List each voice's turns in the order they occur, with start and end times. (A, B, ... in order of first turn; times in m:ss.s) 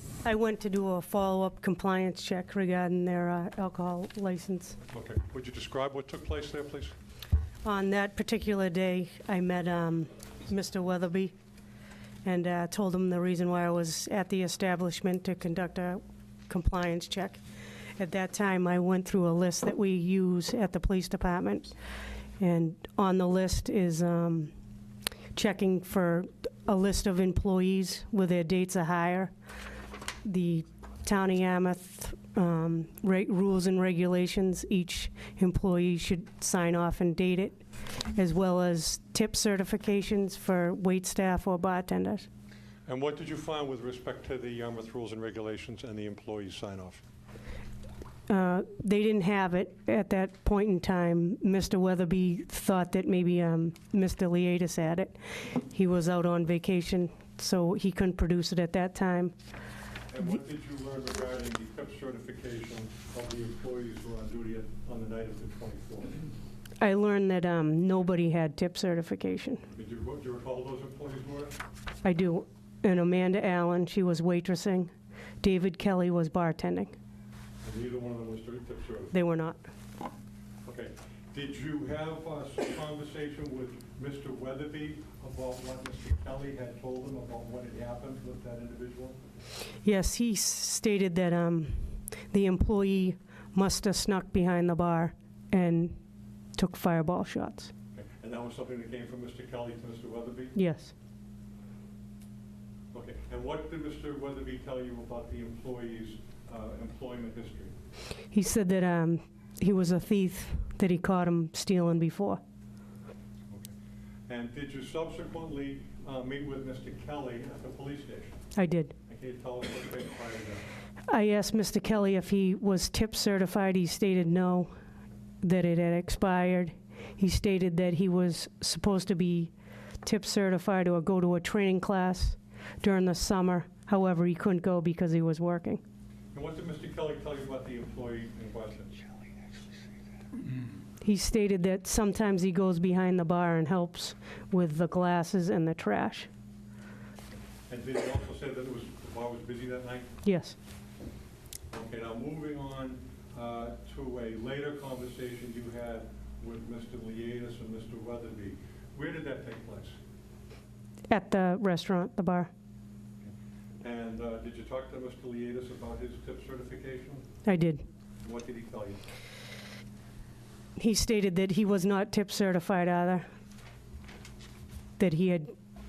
0:00.2-0:04.8 A
0:04.9-0:06.9 B
0:07.6-0:11.3 A
0:12.2-0:17.4 A
0:18.0-0:21.7 A
0:22.4-0:24.5 A
0:25.3-0:29.3 A
0:30.2-0:42.3 A
0:42.9-0:47.0 B
0:48.3-0:59.3 A
1:00.1-1:06.3 B
1:06.8-1:09.6 A
1:09.7-1:11.6 B
1:12.0-1:17.0 A
1:17.6-1:19.2 B
1:19.1-1:19.6 A
1:20.6-1:29.2 B
1:29.8-1:36.0 A
1:36.6-1:37.7 A
1:38.0-1:40.6 B
1:40.6-1:40.9 A
1:42.9-1:47.7 B
1:48.3-1:52.4 A
1:54.3-1:58.5 B
1:58.6-1:58.9 A
1:59.1-2:00.7 B
2:01.1-2:04.7 A
2:05.4-2:09.5 A
2:10.0-2:15.8 A
2:16.3-2:19.1 B
2:21.0-2:26.3 A
2:27.7-2:30.2 B
2:30.2-2:30.6 A
2:31.7-2:40.0 B
2:41.1-2:42.5 A
2:43.2-2:47.3 B
2:47.4-2:47.8 A
2:48.2-2:49.0 B
2:50.8-2:53.3 A
2:55.0-2:55.5 A